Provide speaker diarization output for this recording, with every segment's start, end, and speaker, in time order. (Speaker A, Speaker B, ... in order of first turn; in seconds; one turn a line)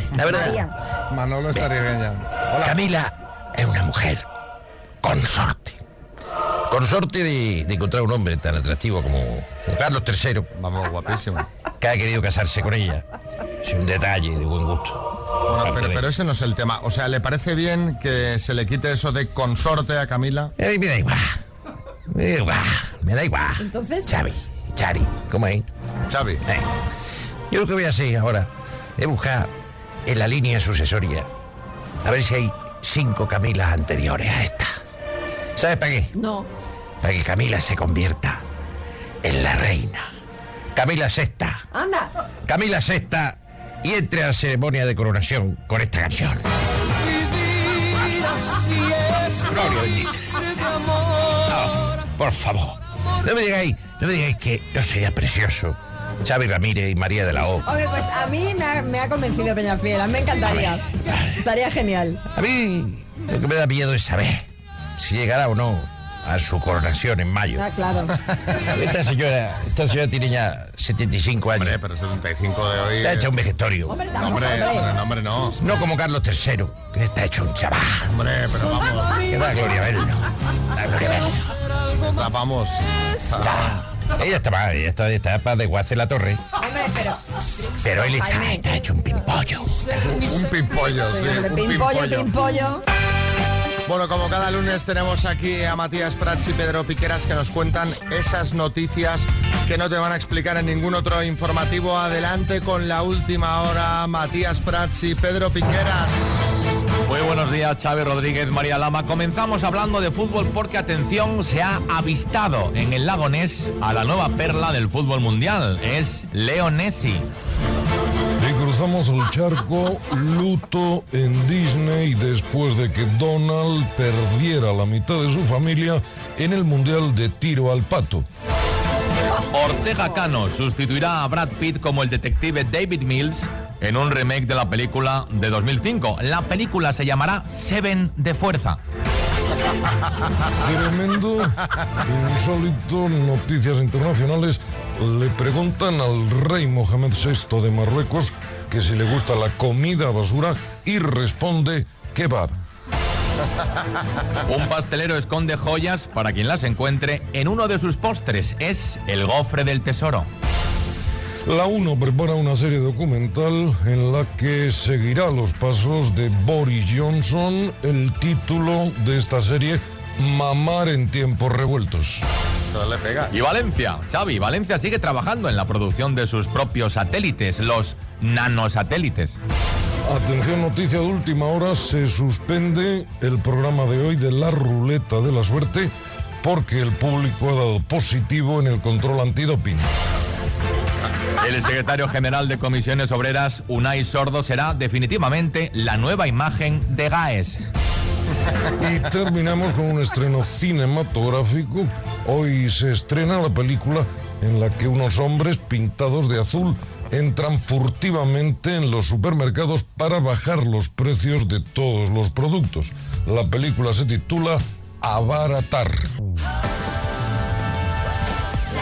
Speaker A: 0.1-0.6
Speaker B: 0.2-0.6
Speaker C: 0.3-0.7
Speaker B: 1.1-2.8
Speaker A: 2.6-4.3
Speaker A: 5.0-5.8
Speaker A: 6.7-10.5
Speaker B: 10.6-11.5
Speaker A: 11.8-13.1
Speaker A: 13.6-15.0
Speaker B: 15.5-20.5
Speaker A: 15.6-16.1
Speaker A: 20.6-21.4
Speaker A: 22.1-25.7
Speaker C: 23.6-24.1
Speaker B: 26.1-26.4
Speaker A: 27.5-29.5
Speaker A: 30.1-31.3
Speaker A: 32.0-34.7
Speaker A: 35.6-36.1
Speaker C: 36.1-36.5
Speaker A: 37.0-38.4
Speaker A: 39.2-40.0
Speaker A: 40.7-41.6
Speaker C: 41.7-42.1
Speaker A: 42.5-46.5
Speaker A: 49.3-50.2
Speaker A: 51.5-57.7
Speaker C: 57.6-62.2
Speaker A: 60.5-61.3
Speaker A: 62.4-67.6
Speaker C: 67.6-68.1
Speaker A: 68.7-71.8
Speaker B: 71.6-73.3
Speaker A: 73.0-74.0
Speaker C: 73.9-74.9
Speaker B: 74.2-75.6
Speaker A: 75.6-78.1
Speaker B: 78.1-79.2
Speaker A: 79.3-81.5
Speaker B: 82.0-83.7
Speaker A: 83.4-86.4
Speaker C: 86.6-87.2
Speaker A: 87.8-90.0
Speaker C: 88.2-88.7
Speaker B: 90.1-92.3
Speaker C: 91.1-92.8
Speaker B: 93.9-106.5
Speaker D: 107.1-117.3
Speaker E: 118.4-128.2
Speaker D: 129.5-138.8
Speaker E: 140.6-152.5
Speaker D: 154.5-160.3
Speaker E: 161.5-172.2
Speaker B: 172.6-173.3
Speaker D: 173.3-179.3
Speaker E: 180.1-185.9
Speaker E: 186.4-189.9
Speaker D: 191.4-197.6
Speaker E: 198.8-216.0